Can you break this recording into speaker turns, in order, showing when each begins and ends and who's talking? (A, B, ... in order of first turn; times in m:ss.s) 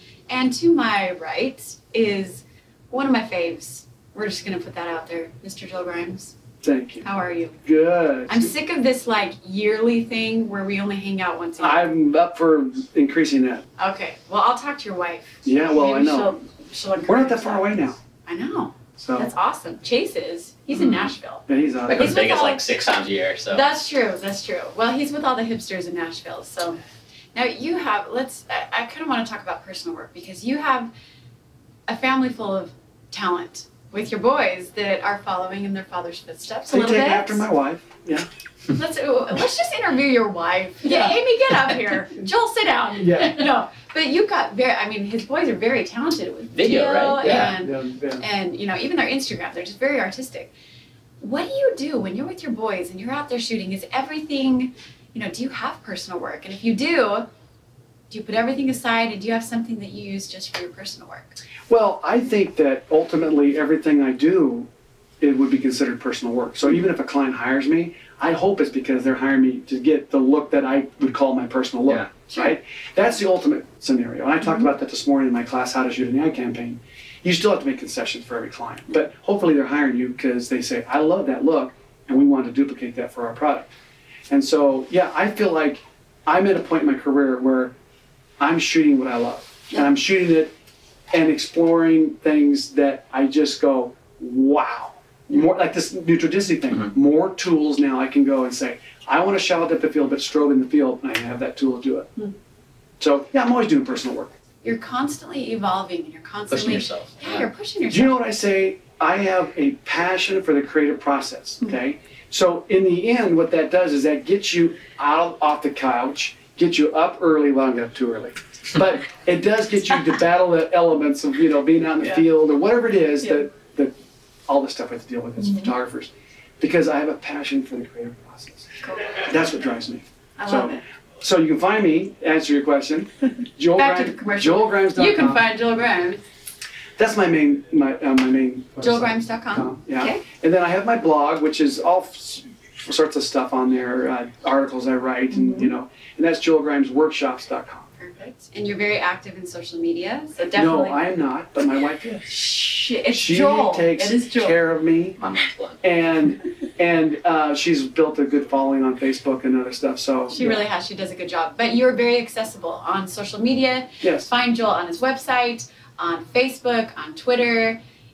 0:00.3-0:06.3 A
0:06.6-0:07.1 B
0:07.0-0:07.6 A
0:07.6-0:08.5 B
0:08.3-0:11.9 A
0:11.6-0:13.6 B
0:13.8-0:22.7 A
0:15.4-0:16.3 B
0:17.1-0:18.0 B
0:19.0-0:19.3 B
0:20.7-0:21.1 C
0:21.5-0:22.2 B
0:21.9-0:23.6 C
0:23.5-0:26.8 A
0:27.4-0:30.9 A
0:31.9-0:37.5 A
0:36.7-0:38.3 B
0:38.7-0:50.5 A
0:40.8-0:41.2 B
0:43.0-0:43.4 B
0:46.5-0:47.6 C
0:47.2-0:48.2 B
0:51.2-0:57.3 A
0:58.1-1:01.4 A
1:01.7-1:04.7 B
1:05.2-1:23.7 B
1:12.3-1:12.6 A
1:24.3-1:27.8 B
1:28.4-1:30.5 B
1:31.1-1:42.1 B
1:43.0-1:44.3 B
1:44.6-1:48.2 A
1:46.5-1:47.5 C
1:47.9-2:03.9 B
2:04.5-2:15.5 B
2:05.4-2:05.7 A
2:08.8-2:09.3 A
2:10.4-2:10.8 A
2:13.8-2:16.2 A
2:17.0-2:27.9 B
2:18.8-2:20.2 A
2:25.3-2:25.7 A
2:28.0-2:31.1 A
2:30.5-2:32.4 B
2:32.2-2:34.6 A
2:33.1-2:35.2 B
2:35.2-2:35.8 C
2:35.8-2:40.6 B
2:40.3-2:47.8 A
2:44.0-2:44.3 B